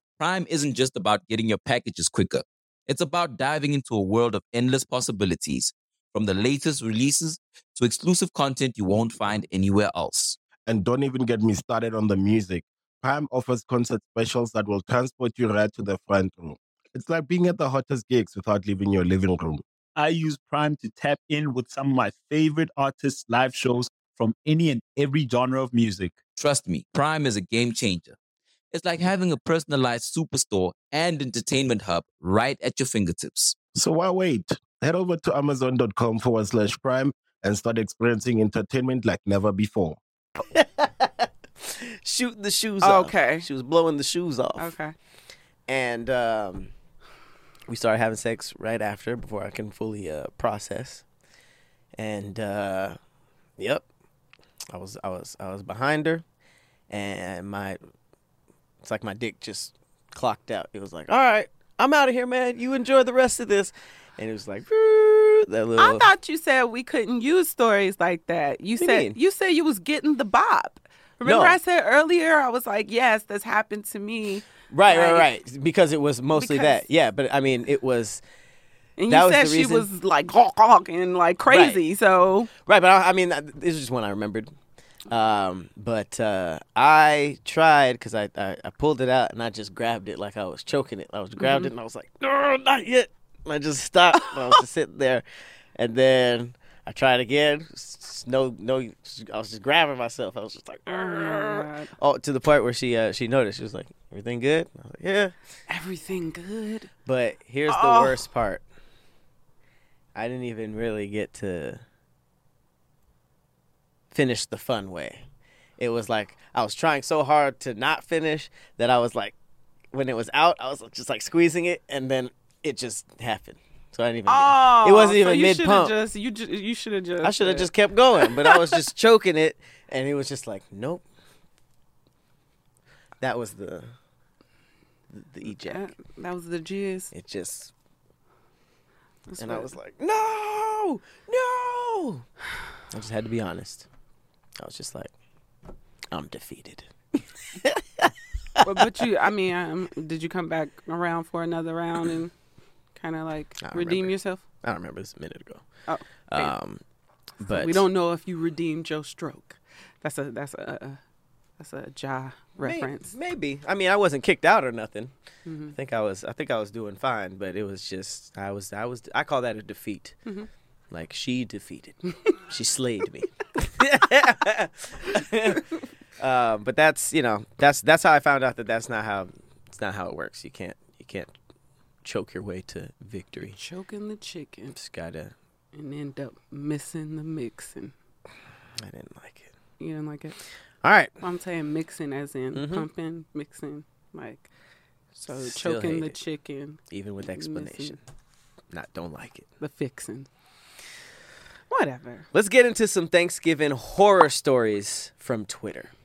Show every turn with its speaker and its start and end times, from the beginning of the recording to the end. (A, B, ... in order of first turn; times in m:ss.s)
0:00.2-0:10.4 A
0:10.6-0:19.6 B
0:20.0-0:26.2 C
0:26.4-0:28.2 A
0:28.7-0:33.6 A
0:33.7-0:40.0 B
0:40.5-0:44.7 D
0:42.8-0:43.5 E
0:44.6-0:44.9 E
0:45.7-0:46.7 D
0:47.7-0:51.0 D
0:52.0-0:53.0 D
0:53.6-0:53.8 D
0:54.7-0:56.2 D
0:56.9-0:57.8 D
0:58.8-1:06.1 D
1:05.8-1:15.3 E
1:08.8-1:09.2 D
1:11.2-1:11.6 D
1:14.7-1:18.2 D
1:16.3-1:16.8 E
1:19.0-1:22.5 E
1:19.1-1:19.9 D
1:21.5-1:21.8 D
1:22.6-1:24.5 D
1:25.1-1:35.2 D
1:31.4-1:31.7 E
1:35.8-1:45.3 D
1:40.9-1:41.9 E
1:45.7-1:46.9 E
1:47.0-1:48.6 D
1:47.7-1:48.2 E
1:50.1-1:51.8 D
1:54.1-1:55.2 D
1:55.8-1:59.3 D
1:59.9-2:06.0 D
2:04.3-2:08.6 E
2:07.2-2:11.0 D
2:13.2-2:13.9 D
2:15.1-2:15.9 D
2:15.4-2:17.1 E
2:17.1-2:17.7 D
2:19.3-2:19.7 E
2:19.4-2:22.3 D
2:22.9-2:23.8 D
2:24.6-2:25.1 D
2:26.1-2:28.6 D
2:28.6-2:32.3 E
2:33.0-2:34.4 E
2:33.6-2:35.6 D
2:35.9-2:36.5 E
2:36.3-2:36.8 D
2:37.4-2:37.8 D
2:37.4-2:41.0 E
2:41.6-2:43.1 E
2:42.6-2:45.1 D
2:45.4-2:45.7 E
2:45.7-2:50.2 D
2:50.9-2:55.7 D
2:56.2-3:01.3 D
3:02.0-3:03.6 D
3:03.5-3:04.8 E
3:04.7-3:05.3 D
3:05.7-3:07.9 E
3:08.8-3:09.5 D
3:09.8-3:10.4 E
3:10.8-3:11.2 D
3:11.2-3:14.5 E
3:12.5-3:12.8 D
3:15.2-3:18.0 E
3:15.3-3:16.1 D
3:16.9-3:18.0 D
3:18.7-3:19.5 D
3:19.6-3:20.3 E
3:21.7-3:22.3 E
3:22.3-3:25.9 D